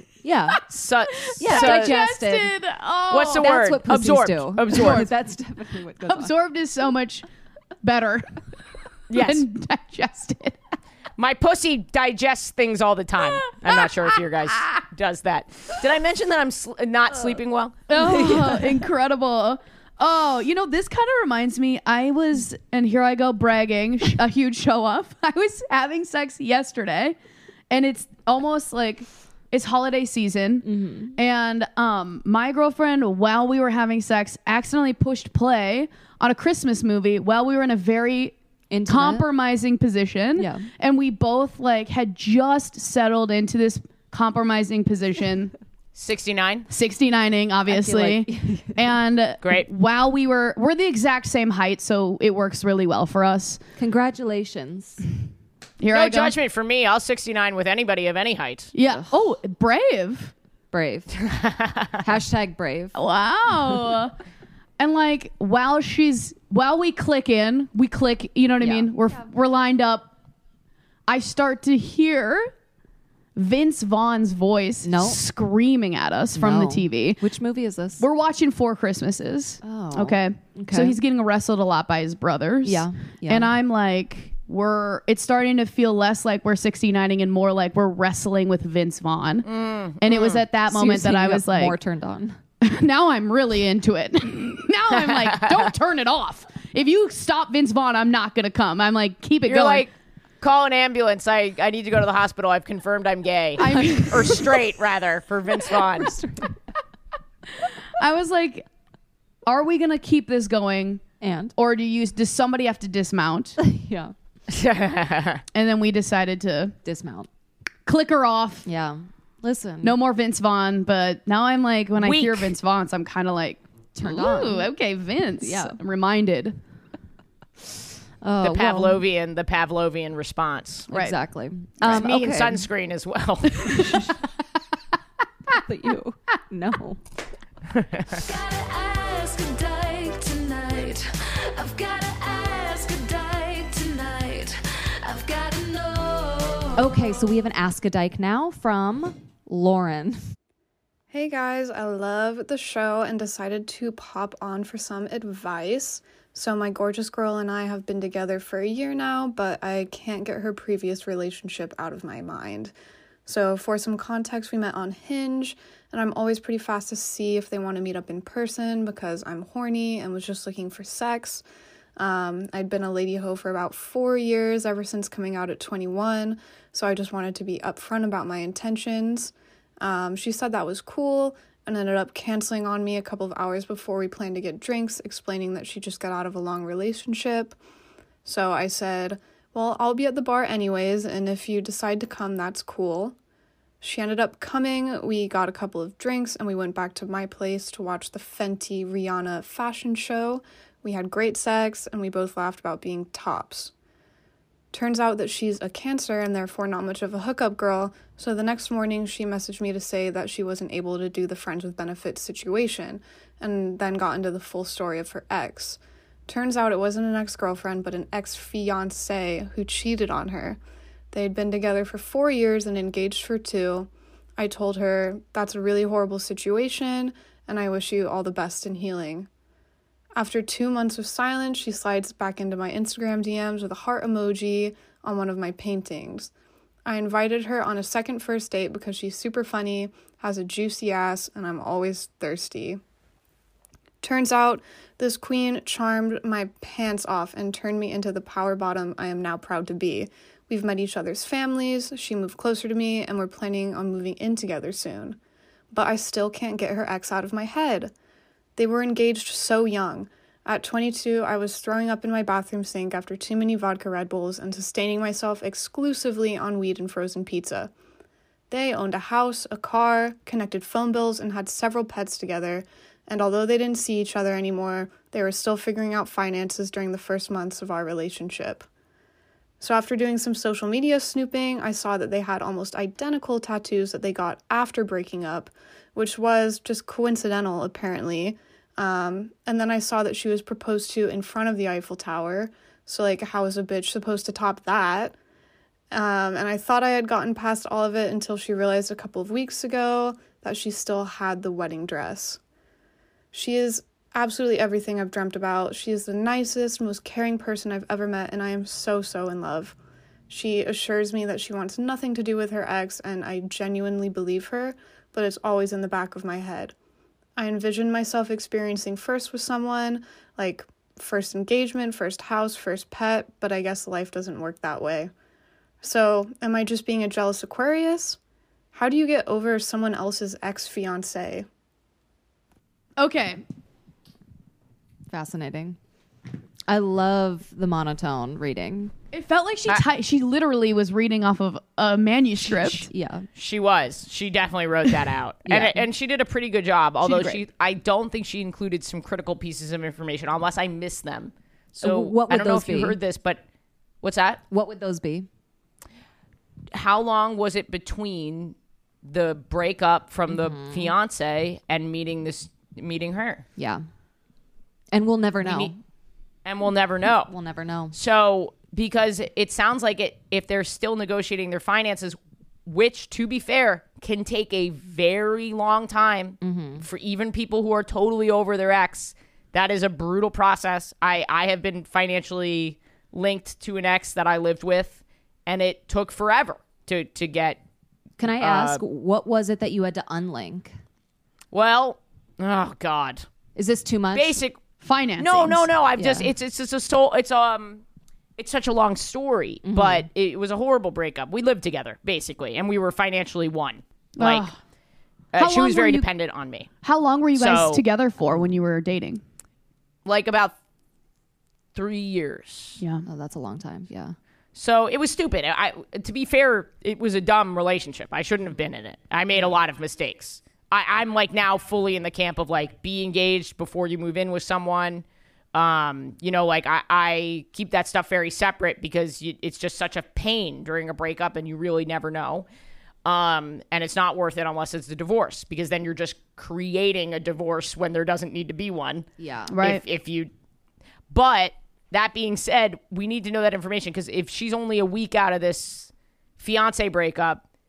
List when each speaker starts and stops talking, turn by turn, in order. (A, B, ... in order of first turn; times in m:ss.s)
0:00.2-0:00.6 A
0:00.6-0:02.0 B
0:01.3-0:03.5 C
0:01.4-0:02.5 A
0:03.1-0:05.1 B
0:03.3-0:06.3 A
0:04.7-0:05.1 C
0:06.0-0:07.2 C
0:07.8-0:08.4 C
0:09.1-0:09.5 B
0:09.1-0:10.6 C
0:11.2-0:18.8 B
0:13.4-0:13.9 C
0:17.9-0:27.2 C
0:27.7-0:38.3 C
0:30.6-0:31.2 A
0:38.7-0:39.3 A
0:38.9-0:45.5 C
0:40.4-0:40.7 A
0:46.0-0:46.7 B
0:46.7-0:53.6 C
0:47.7-0:48.8 A
0:49.4-0:49.7 B
0:53.8-0:55.0 A
0:55.8-0:56.3 C
0:55.9-0:58.7 B
0:58.7-1:00.3 C
0:58.9-0:59.1 A
1:00.7-1:01.2 A
1:01.2-1:02.0 B
1:02.0-1:03.0 A
1:03.0-1:04.2 C
1:04.8-1:10.1 C
1:08.6-1:08.9 A
1:11.1-1:12.5 C
1:13.4-1:17.2 C
1:14.8-1:15.2 A
1:16.4-1:18.0 A
1:18.0-1:29.5 C
1:19.6-1:21.0 A
1:22.6-1:23.5 A
1:29.4-1:30.4 B
1:30.0-1:31.8 C
1:30.7-1:32.4 A
1:32.6-1:39.9 C
1:35.0-1:35.6 B
1:39.5-1:46.2 B
1:43.6-1:44.6 C
1:46.0-1:46.5 A
1:47.6-1:48.6 C
1:49.5-1:51.0 C
1:51.2-1:51.5 A
1:51.6-1:53.6 C
1:53.6-1:54.1 A
1:54.5-1:55.4 B
1:55.5-1:56.8 C
1:56.8-1:57.3 A
1:57.9-1:58.7 C
1:58.6-2:00.0 A
1:59.8-2:06.6 C
2:02.0-2:02.5 B
2:04.0-2:04.7 A
2:05.4-2:05.8 A
2:08.2-2:09.0 A
2:08.4-2:10.9 B
2:10.9-2:11.2 C
2:10.9-2:12.7 A
2:11.8-2:14.1 B
2:13.7-2:14.0 C
2:15.6-2:17.0 A
2:17.7-2:18.2 B
2:18.1-2:27.0 D
2:26.8-2:30.2 A
2:31.1-2:42.7 E
2:43.3-2:51.4 E
2:52.0-3:07.6 E
3:08.2-3:13.2 E
3:13.8-3:23.7 E
3:24.7-3:40.6 E
3:41.1-3:49.3 E
3:50.2-3:56.3 E
3:56.9-4:02.8 E
4:04.0-4:15.2 E
4:15.7-4:17.9 E
4:18.6-4:27.7 E
4:28.5-4:38.7 E
4:39.6-4:55.2 E
4:55.9-5:02.4 E
5:03.3-5:09.8 E
5:10.3-5:16.8 E
5:17.4-5:25.1 E
5:25.8-5:28.2 E
5:28.7-5:31.5 E
5:33.0-5:33.4 C
5:35.1-5:35.8 A
5:36.7-5:38.9 A
5:39.1-5:42.9 C
5:42.6-5:43.3 A
5:43.4-5:53.4 B
5:45.5-5:45.8 A
5:47.0-5:47.4 A
5:51.8-5:53.0 A
5:54.0-5:54.4 B
5:54.5-5:55.3 A
5:56.7-6:03.4 B
6:00.3-6:00.9 A
6:03.6-6:03.8 A
6:04.9-6:05.8 A
6:05.4-6:05.7 B
6:06.4-6:07.3 B
6:07.3-6:08.0 A
6:07.9-6:27.6 B
6:16.4-6:16.9 A
6:28.2-6:30.8 A
6:28.4-6:28.8 B
6:31.5-6:33.3 B
6:33.6-6:34.4 A
6:34.1-6:34.6 B
6:34.8-6:35.7 C
6:35.2-6:37.8 B
6:36.0-6:36.3 A
6:38.4-6:44.5 B
6:39.6-6:40.1 A
6:44.2-6:44.6 C
6:45.3-6:46.7 B
6:45.4-6:46.1 C
6:46.8-6:49.2 C
6:47.4-6:47.8 B
6:50.0-6:50.6 B
6:51.7-6:52.8 B
6:52.8-6:53.0 C
6:53.0-6:54.2 A
6:54.6-7:12.5 B
7:13.0-7:20.3 B
7:19.2-7:19.5 A
7:19.5-7:19.8 C
7:21.1-7:27.4 B